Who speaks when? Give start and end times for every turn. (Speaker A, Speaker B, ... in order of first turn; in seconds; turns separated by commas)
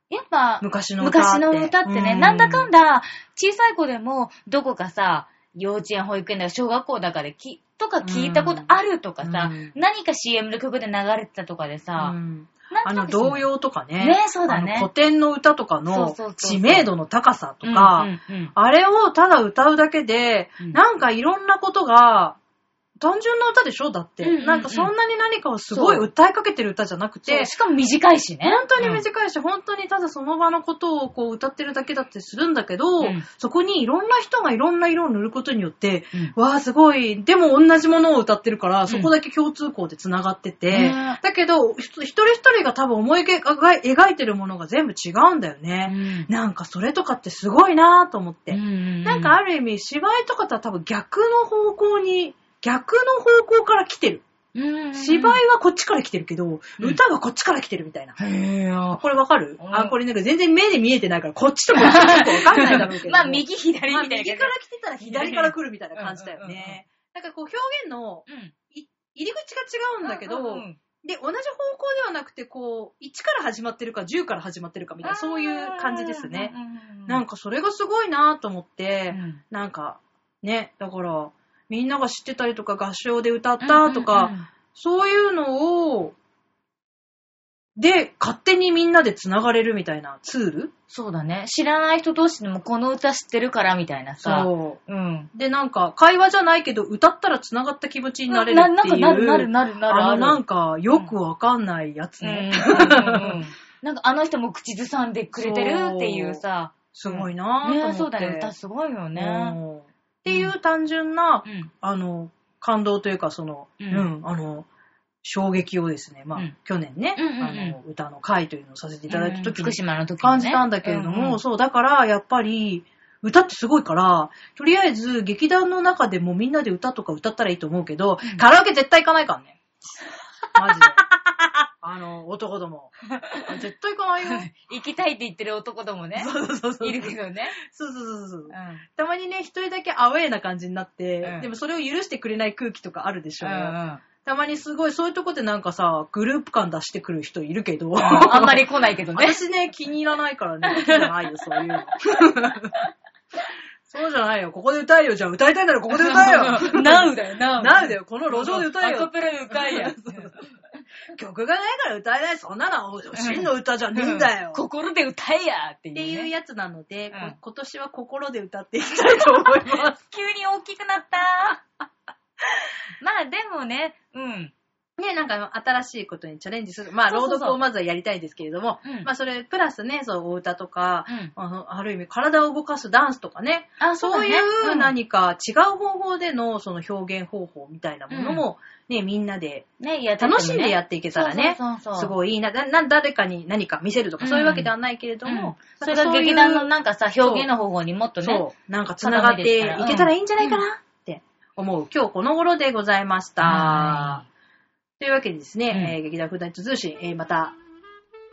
Speaker A: 0.1-12.2, Speaker B: 0.6-2.7, Speaker B: 8.0-8.7, Speaker B: 9.2-9.8, Speaker B: 12.0-22.4, Speaker A: 12.7-13.5, Speaker A: 14.0-14.9, Speaker A: 15.9-16.9, Speaker A: 17.6-18.5, Speaker B: 23.0-27.5, Speaker A: 24.2-24.9, Speaker A: 25.7-26.1, Speaker A: 27.3-29.1, Speaker B: 28.4-54.2, Speaker A: 33.0-33.3, Speaker A: 40.7-41.2, Speaker A: 45.9-46.3, Speaker A: 48.5-49.4, Speaker A: 54.5-55.4, Speaker B: 55.0-58.2, Speaker A: 58.2-59.0, Speaker B: 59.0-76.5, Speaker A: 59.6-60.0, Speaker A: 61.8-66.8, Speaker A: 68.3-68.5, Speaker A: 70.0-70.8, Speaker A: 75.0-77.2, Speaker B: 77.1-86.2, Speaker A: 79.1-79.4, Speaker A: 83.6-84.5, Speaker B: 87.8-90.7, Speaker A: 90.9-95.3, Speaker B: 94.2-94.8, Speaker B: 95.3-103.4, Speaker A: 98.3-100.4, Speaker A: 102.2-109.6, Speaker B: 105.3-106.4, Speaker B: 106.9-108.5, Speaker B: 109.2-114.7, Speaker A: 110.3-110.5, Speaker A: 111.5-111.7, Speaker A: 113.8-114.1, Speaker B: 115.2-129.6, Speaker A: 117.2-117.8, Speaker A: 119.1-121.4, Speaker B: 130.6-131.0, Speaker A: 130.6-131.0, Speaker B: 131.8-132.9, Speaker A: 133.1-133.6, Speaker B: 133.4-134.5, Speaker A: 134.2-137.6, Speaker B: 136.2-152.8, Speaker A: 138.5-138.8, Speaker A: 141.2-141.5, Speaker A: 143.4-144.0, Speaker A: 148.0-149.4, Speaker A: 150.7-151.9, Speaker B: 153.9-160.4, Speaker A: 156.0-160.5, Speaker B: 161.1-164.6, Speaker A: 163.1-166.3, Speaker B: 165.9-170.0, Speaker A: 169.2-171.6, Speaker A: 173.0-174.5, Speaker B: 175.0-189.7, Speaker A: 177.1-177.6, Speaker A: 178.8-179.1, Speaker A: 181.1-181.3, Speaker A: 183.8-184.9, Speaker A: 188.1-188.4, Speaker A: 189.8-192.1, Speaker B: 190.2-196.7, Speaker A: 194.2-194.7, Speaker A: 195.3-198.5, Speaker B: 197.2-197.5, Speaker B: 198.2-204.2, Speaker A: 199.0-200.6, Speaker A: 203.4-204.2, Speaker B: 205.0-207.6